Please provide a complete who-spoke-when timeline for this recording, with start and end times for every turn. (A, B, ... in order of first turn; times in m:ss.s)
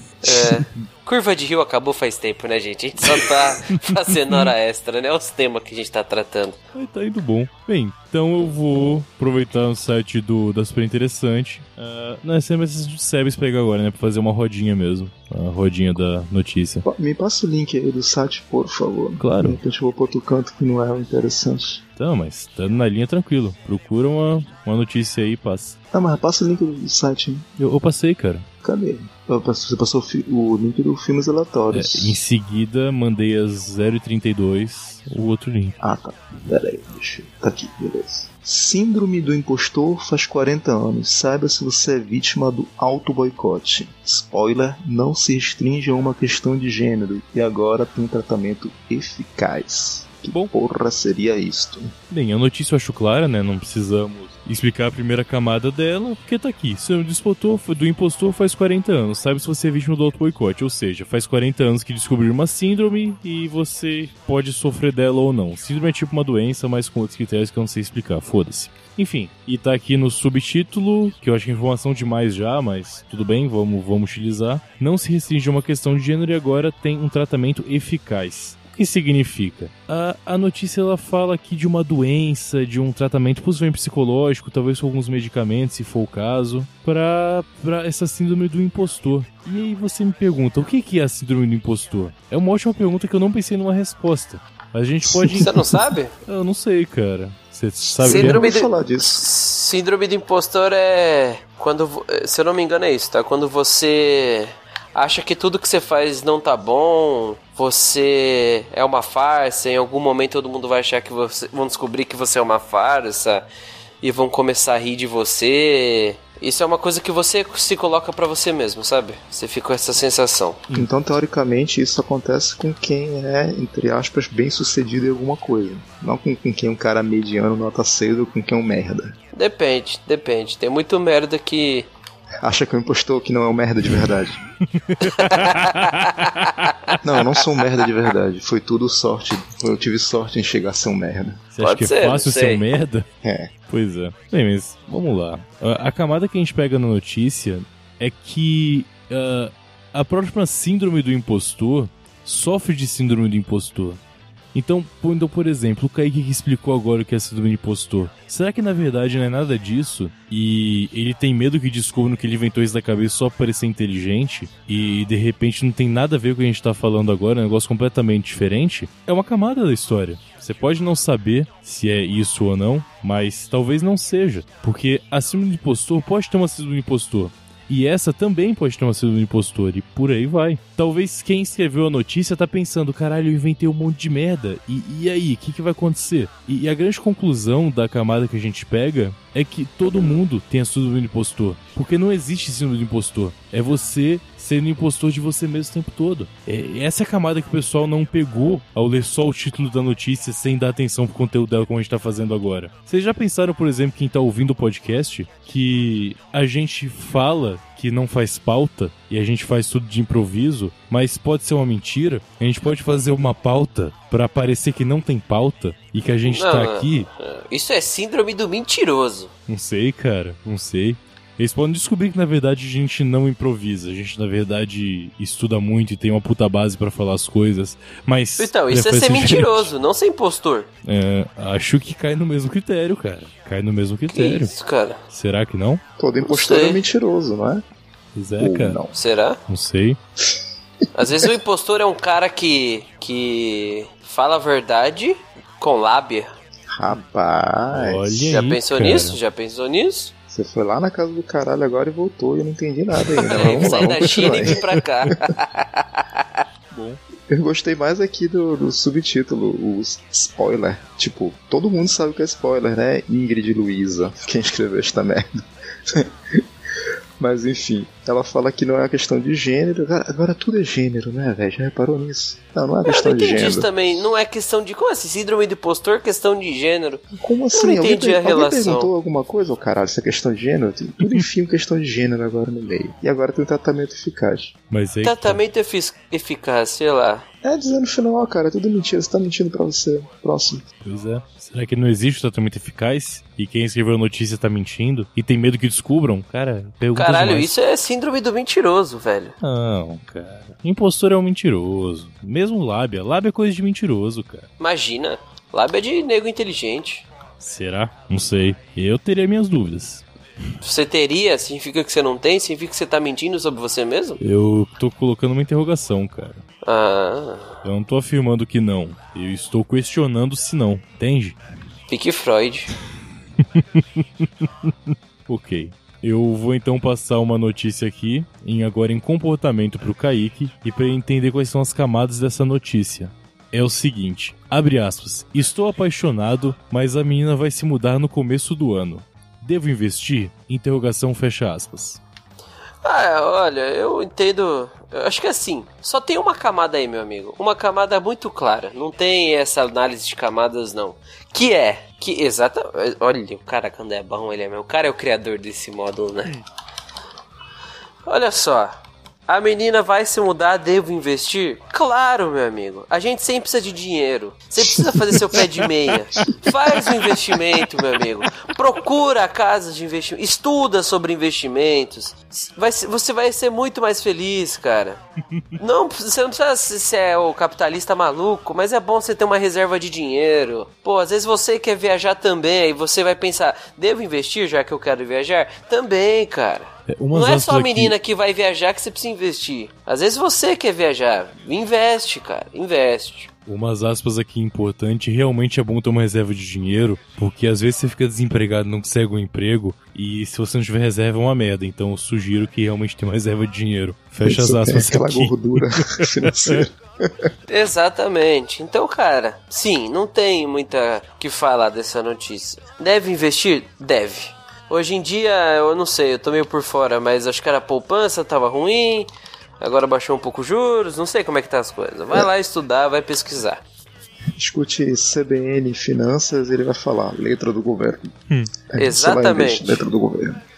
0:00.2-0:06.6 A
0:03.1-0:04.5 B
0:06.8-0:16.8 B
0:16.8-0:21.8 C
0:19.2-0:19.6 B
0:22.0-0:25.8 B
0:25.9-0:27.5 C
0:27.6-0:28.5 B
0:28.6-0:32.2 C
0:31.7-0:35.8 B
0:35.8-0:51.9 C
0:52.1-1:35.7 B
1:35.1-1:35.7 C
1:35.4-1:36.1 A
1:36.2-1:38.4 B
1:38.0-1:39.2 C
1:38.0-1:53.5 A
1:54.0-2:00.6 A
2:00.7-2:09.2 C
2:09.3-2:11.9 A
2:12.4-2:14.4 C
2:14.7-2:16.3 B
2:15.0-2:17.0 A
2:17.0-2:21.4 C
2:21.5-2:23.0 B
2:21.6-2:22.6 A
2:23.2-2:23.5 C
2:23.7-2:34.0 B
2:34.5-3:37.1 B
3:36.2-3:39.3 A
3:39.5-3:49.7 B
3:48.4-3:50.7 A
3:50.8-3:54.5 B
3:54.1-3:55.0 A
3:55.1-3:55.8 B
3:56.0-3:57.6 C
3:56.2-3:56.8 A
3:58.1-3:58.8 B
3:58.4-3:58.9 C
3:58.9-3:59.4 A
3:59.5-4:00.0 B
4:00.9-4:06.3 A
4:06.7-4:08.3 C
4:07.7-4:09.2 B
4:08.3-4:10.1 A
4:10.3-4:14.6 C
4:13.2-4:16.4 A
4:13.3-4:14.4 B
4:16.7-4:17.0 B
4:17.3-4:25.3 C
4:25.9-4:26.4 C
4:27.2-4:33.7 C
4:32.8-4:38.9 A
4:37.2-4:44.5 C
4:44.7-4:45.4 B
4:45.0-4:47.2 A
4:47.4-4:50.6 C
4:50.8-4:57.5 B
4:57.0-4:59.4 A
4:59.4-5:04.5 B
5:04.6-5:07.0 A
5:07.4-5:10.0 B
5:10.6-5:14.2 A
5:14.2-5:16.4 B
5:16.6-5:17.6 A
5:17.6-5:21.4 B
5:21.9-5:22.7 A
5:23.4-5:42.0 B
5:42.8-5:56.3 A
5:58.0-5:58.8 A
5:59.3-6:15.0 A
6:04.8-6:05.2 C
6:06.2-6:06.8 C
6:15.6-6:33.3 A
6:26.9-6:28.0 B
6:33.5-6:46.6 B
6:44.2-6:47.3 C
6:47.5-7:03.6 A
7:04.4-7:08.1 C
7:08.7-7:10.4 C
7:08.8-7:09.8 A